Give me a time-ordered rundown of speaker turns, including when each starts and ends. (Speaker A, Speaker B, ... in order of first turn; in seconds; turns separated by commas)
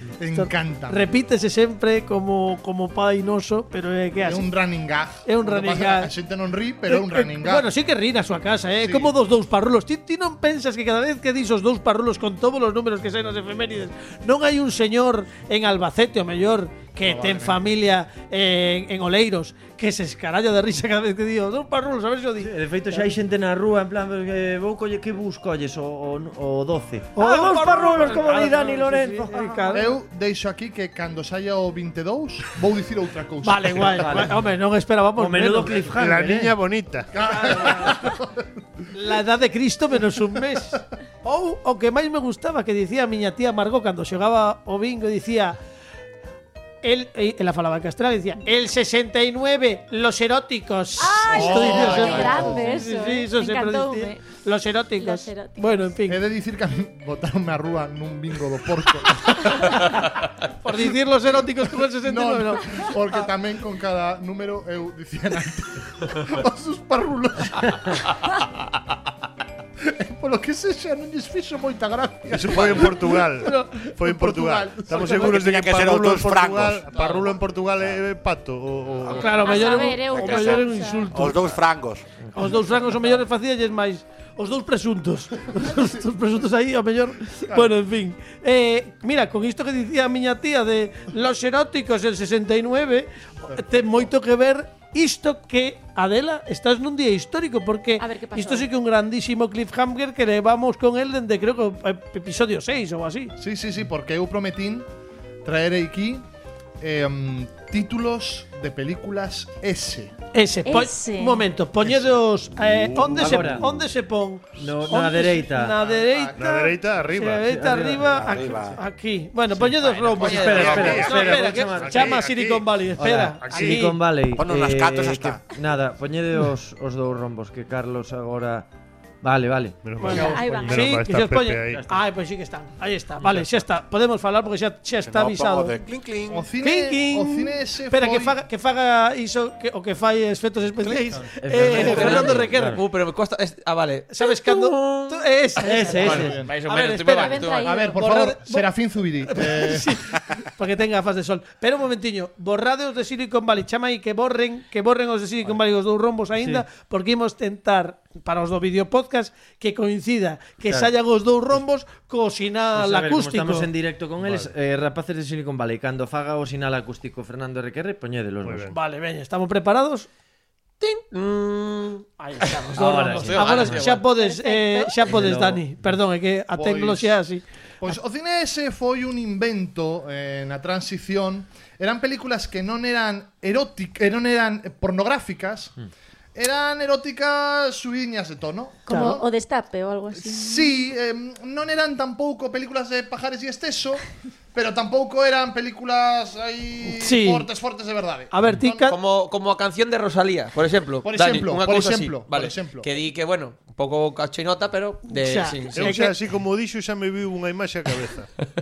Speaker A: 0.2-1.0, Speaker B: 0.3-4.5, Speaker A: 4.2-7.7, Speaker B: 5.2-6.1, Speaker B: 6.9-23.1, Speaker A: 8.8-9.1, Speaker A: 17.0-17.6, Speaker C: 22.4-29.8, Speaker B: 27.1-29.9, Speaker A: 29.7-34.3, Speaker B: 33.4-35.9, Speaker C: 34.0-34.3, Speaker C: 35.1-36.5, Speaker D: 36.0-37.1, Speaker A: 37.1-38.5, Speaker B: 37.3-38.0, Speaker B: 38.9-45.6, Speaker B: 46.8-56.2, Speaker E: 51.0-54.2, Speaker A: 51.3-52.7, Speaker E: 55.0-55.9, Speaker A: 56.1-59.9, Speaker B: 60.6-63.2, Speaker A: 62.0-68.2, Speaker A: 69.8-73.3, Speaker D: 72.3-79.5, Speaker B: 73.4-73.7, Speaker A: 73.8-75.5, Speaker B: 75.0-75.2, Speaker F: 75.3-76.8, Speaker B: 79.1-81.5, Speaker E: 79.3-81.2, Speaker F: 79.8-82.0, Speaker B: 82.3-103.3, Speaker A: 93.5-94.1, Speaker E: 98.0-98.7, Speaker A: 103.4-104.9, Speaker A: 105.4-106.2, Speaker A: 106.8-110.1, Speaker B: 110.3-124.0, Speaker E: 110.6-111.4, Speaker D: 112.6-113.6, Speaker C: 113.0-113.6, Speaker C: 114.6-115.8, Speaker A: 115.7-116.5, Speaker D: 116.3-117.5, Speaker C: 117.4-118.5, Speaker F: 118.1-118.8, Speaker C: 119.6-122.2, Speaker G: 119.8-121.2, Speaker D: 120.2-122.8, Speaker C: 123.0-128.7, Speaker D: 123.4-123.8, Speaker F: 124.3-125.4, Speaker C: 129.2-130.6, Speaker D: 129.8-131.8, Speaker B: 130.0-135.8, Speaker E: 130.1-131.0, Speaker C: 131.7-132.0, Speaker F: 135.1-136.4, Speaker A: 136.3-138.4, Speaker B: 136.6-142.8, Speaker A: 140.8-141.2, Speaker C: 141.4-142.8, Speaker G: 141.7-147.7, Speaker B: 144.1-148.7, Speaker C: 145.6-146.4, Speaker A: 146.1-146.5, Speaker E: 147.1-148.1, Speaker A: 147.6-150.1, Speaker B: 149.2-163.7, Speaker C: 156.4-156.6, Speaker C: 160.7-160.9, Speaker C: 162.7-168.7, Speaker D: 164.2-164.5, Speaker D: 168.4-168.8, Speaker B: 168.7-170.1, Speaker G: 170.8-172.0, Speaker B: 172.2-177.9, Speaker C: 172.7-173.9, Speaker G: 173.0-174.1, Speaker E: 174.1-175.2, Speaker C: 175.1-175.8, Speaker A: 176.5-177.2, Speaker A: 177.8-185.8, Speaker A: 186.3-189.2, Speaker E: 188.8-190.8, Speaker B: 188.9-189.2, Speaker A: 190.1-198.9, Speaker B: 196.9-197.5, Speaker B: 198.3-199.0, Speaker G: 198.9-205.9, Speaker A: 201.0-202.9, Speaker B: 205.1-206.1, Speaker D: 205.7-208.3